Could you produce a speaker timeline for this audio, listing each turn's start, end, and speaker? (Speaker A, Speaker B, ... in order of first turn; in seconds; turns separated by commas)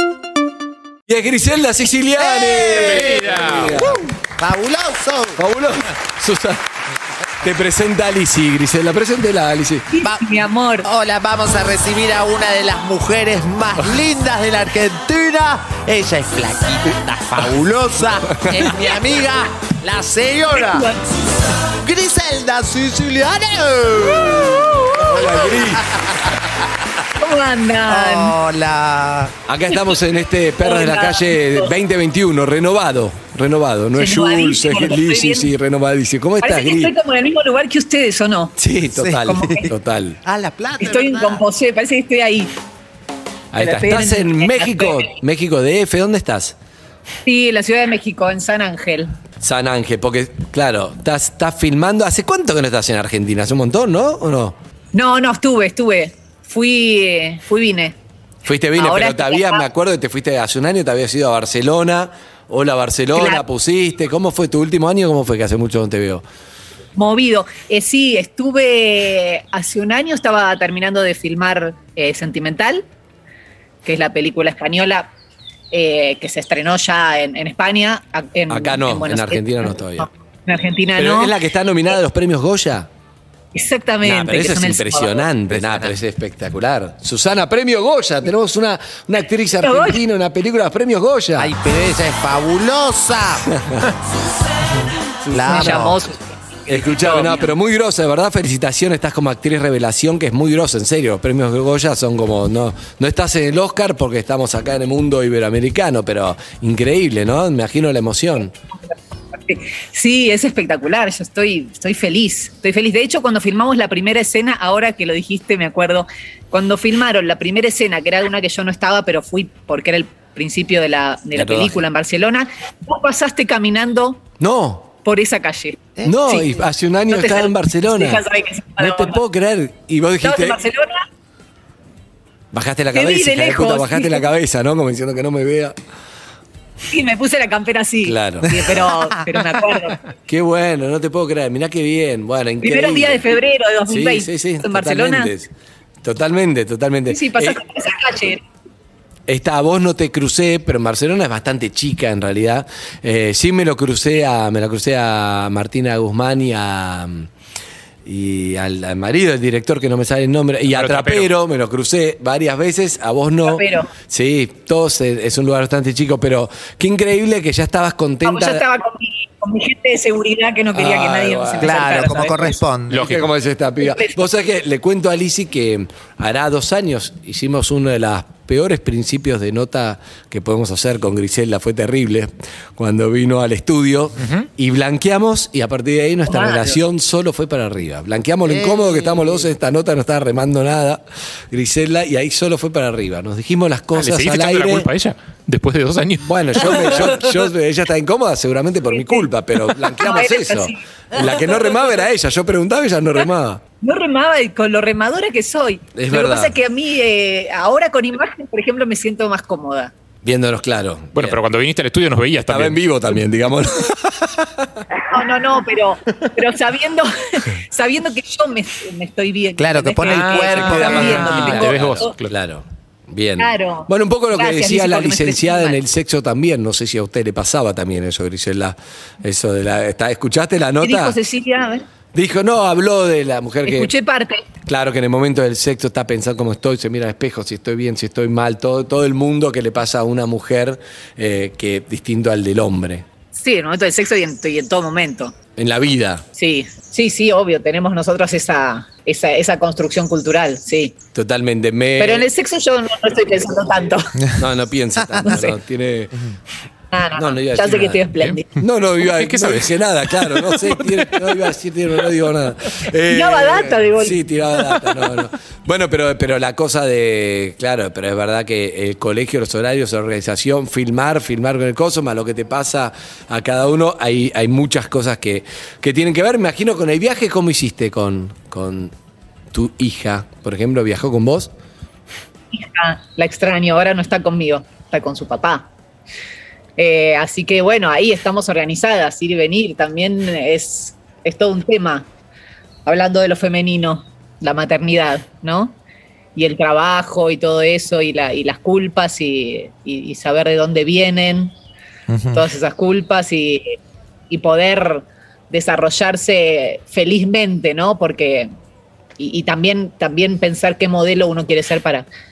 Speaker A: 1.1-4.1, Speaker B: 2.2-3.3, Speaker C: 2.8-3.7, Speaker B: 3.8-5.4, Speaker A: 5.4-6.6, Speaker A: 7.4-9.9, Speaker D: 9.9-10.9, Speaker B: 10.8-20.9, Speaker A: 18.3-18.7, Speaker D: 18.5-19.1, Speaker D: 20.5-21.1, Speaker B: 21.8-26.5, Speaker D: 24.0-25.2, Speaker A: 25.0-25.9, Speaker D: 27.2-28.4, Speaker B: 27.9-29.3, Speaker A: 29.5-36.9, Speaker D: 30.6-31.7, Speaker D: 34.0-35.5, Speaker D: 36.4-38.5, Speaker A: 38.6-40.2, Speaker B: 38.9-39.7, Speaker D: 39.2-39.7, Speaker B: 40.2-41.4, Speaker D: 40.8-42.5, Speaker A: 43.5-46.6, Speaker D: 43.6-45.1, Speaker D: 47.2-49.1, Speaker A: 49.4-54.6, Speaker D: 54.9-58.0, Speaker A: 58.5-66.2, Speaker D: 58.8-59.7, Speaker D: 63.1-63.5, Speaker D: 67.0-72.8, Speaker D: 73.8-75.1, Speaker D: 75.7-81.3, Speaker A: 78.5-80.1, Speaker A: 81.0-82.9, Speaker D: 83.5-85.3, Speaker A: 84.0-91.5, Speaker D: 89.6-90.0, Speaker B: 91.4-93.5, Speaker A: 93.5-93.9, Speaker A: 95.2-96.0, Speaker B: 95.3-96.0, Speaker D: 95.5-97.5, Speaker A: 96.7-108.5, Speaker D: 109.3-124.2, Speaker A: 121.3-121.8, Speaker A: 124.4-124.9, Speaker D: 125.0-129.2, Speaker A: 126.0-128.2, Speaker A: 128.8-130.6, Speaker D: 130.2-131.1, Speaker A: 132.5-135.8, Speaker D: 132.9-134.2, Speaker D: 136.9-140.0, Speaker A: 138.0-138.5, Speaker A: 140.3-143.2, Speaker D: 142.6-145.3, Speaker A: 143.9-145.5, Speaker A: 146.0-147.6, Speaker D: 147.1-148.4, Speaker A: 149.3-157.3, Speaker A: 158.1-168.6, Speaker C: 160.7-161.3, Speaker D: 163.5-163.9, Speaker D: 168.2-172.6, Speaker A: 170.7-172.1, Speaker B: 171.6-173.1, Speaker C: 172.9-173.3, Speaker A: 173.0-194.9, Speaker D: 173.8-174.2, Speaker C: 184.2-184.5, Speaker D: 186.3-186.8, Speaker B: 188.4-189.5, Speaker C: 193.9-196.3, Speaker A: 196.2-203.6, Speaker D: 198.8-199.3, Speaker D: 200.0-201.5, Speaker D: 203.8-209.9, Speaker A: 206.0-206.5, Speaker A: 210.2-211.4, Speaker C: 211.2-212.8, Speaker A: 212.5-214.8, Speaker D: 214.9-222.1, Speaker B: 219.6-221.6, Speaker C: 220.1-222.3, Speaker A: 220.6-231.2, Speaker D: 223.4-225.8, Speaker D: 230.8-231.8, Speaker A: 232.1-233.9, Speaker D: 233.7-234.4, Speaker A: 234.7-243.1, Speaker D: 243.3-245.3, Speaker A: 245.6-246.2, Speaker D: 246.3-250.9, Speaker A: 251.2-252.3, Speaker D: 252.0-254.1, Speaker A: 254.4-256.3, Speaker D: 255.2-255.6, Speaker D: 256.9-258.6, Speaker A: 257.2-258.1, Speaker A: 258.6-278.9, Speaker C: 259.1-260.6, Speaker D: 263.1-264.2, Speaker A: 279.5-281.5, Speaker D: 282.5-285.7, Speaker D: 286.8-292.1, Speaker D: 292.9-295.8, Speaker D: 296.4-301.5, Speaker B: 302.1-302.5, Speaker D: 302.3-308.5, Speaker D: 309.2-312.1